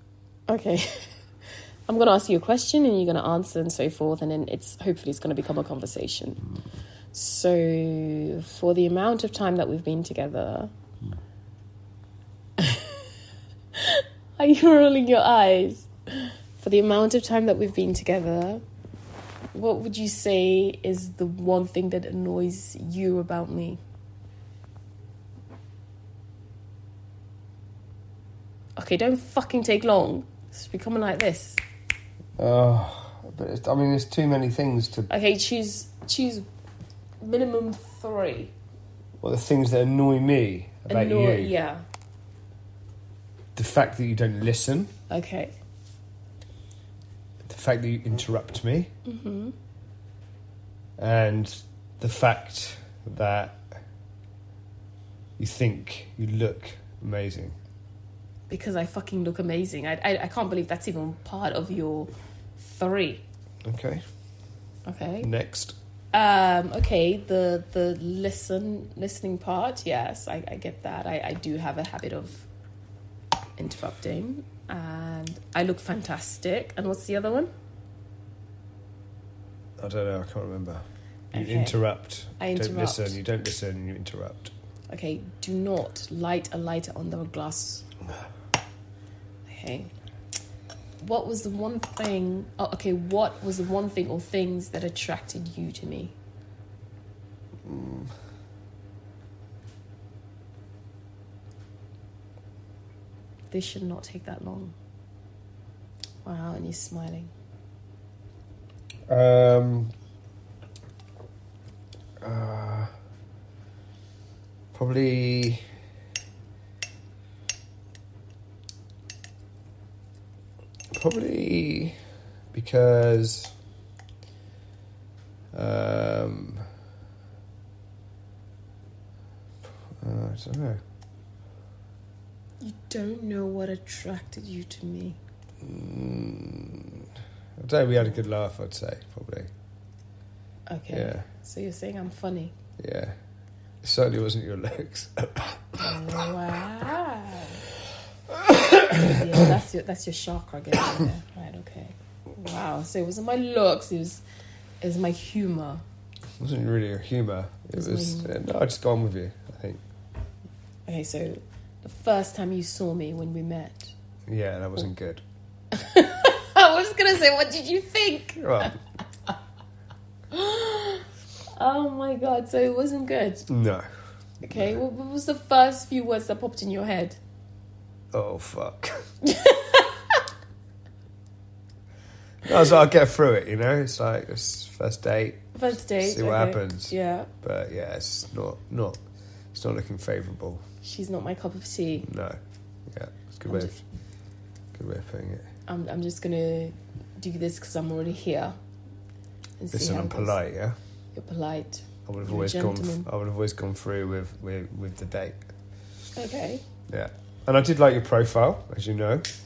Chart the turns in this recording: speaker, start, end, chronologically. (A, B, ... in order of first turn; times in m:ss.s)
0:00.5-0:01.1 A
0:01.9-0:06.4 A
0:07.1-0:10.7 A
0:12.6-0:13.1 A
0:13.8-0:18.6 A
0:19.5-0:23.8 A
0:28.8-0:31.6 A
0:32.4-0:35.1 B
0:35.1-0:36.5 A
0:37.2-0:38.5 A
0:39.2-0:41.6 B
0:40.9-0:41.8 A
0:43.6-0:44.9 B
0:45.1-0:45.6 A
0:47.5-0:48.9 B
0:49.0-0:49.6 A
0:51.0-0:53.6 B
0:55.4-0:57.6 B
0:58.5-1:03.2 A
1:03.6-1:04.0 B
1:04.9-1:05.3 A
1:05.2-1:05.8 B
1:06.1-1:12.5 A
1:13.6-1:17.5 A
1:19.8-1:24.5 B
1:21.3-1:21.8 A
1:22.4-1:23.2 A
1:24.9-1:27.9 A
1:29.5-1:29.9 A
1:31.0-1:36.1 A
1:37.6-1:38.1 B
1:43.5-1:44.7 A
1:46.2-1:47.3 A
1:49.1-1:49.9 B
1:52.2-1:52.9 B
1:54.7-1:55.6 B
2:00.9-2:02.0 B
2:02.5-2:03.5 B
2:05.5-2:06.7 B
2:10.0-2:10.8 B
2:12.6-2:15.2 A
2:15.6-2:19.5 B
2:20.7-2:22.6 A
2:20.9-2:21.3 B
2:22.8-2:23.2 B
2:23.8-2:26.0 B
2:25.8-2:27.6 A
2:28.3-2:29.1 B
2:28.9-2:34.2 A
2:34.8-2:35.8 A
2:36.4-2:39.8 B
2:37.7-2:38.4 A
2:40.9-2:43.9 A
2:44.3-2:45.2 B
2:45.7-2:48.7 A
2:48.4-2:48.8 B
2:50.3-2:53.5 A
2:53.5-2:53.8 B
2:54.4-2:57.2 A
2:58.1-2:59.0 B
2:59.2-3:00.2 A
3:02.4-3:09.0 B
3:05.6-3:07.3 A
3:09.5-3:10.6 B
3:10.8-3:12.1 A
3:12.0-3:12.4 B
3:12.9-3:13.8 B
3:13.5-3:13.8 A
3:14.8-3:15.5 B
3:15.7-3:18.6 A
3:19.6-3:20.4 A
3:19.7-3:20.8 B
3:21.2-3:23.1 A
3:22.1-3:25.5 B
3:26.2-3:26.6 A
3:26.9-3:29.2 B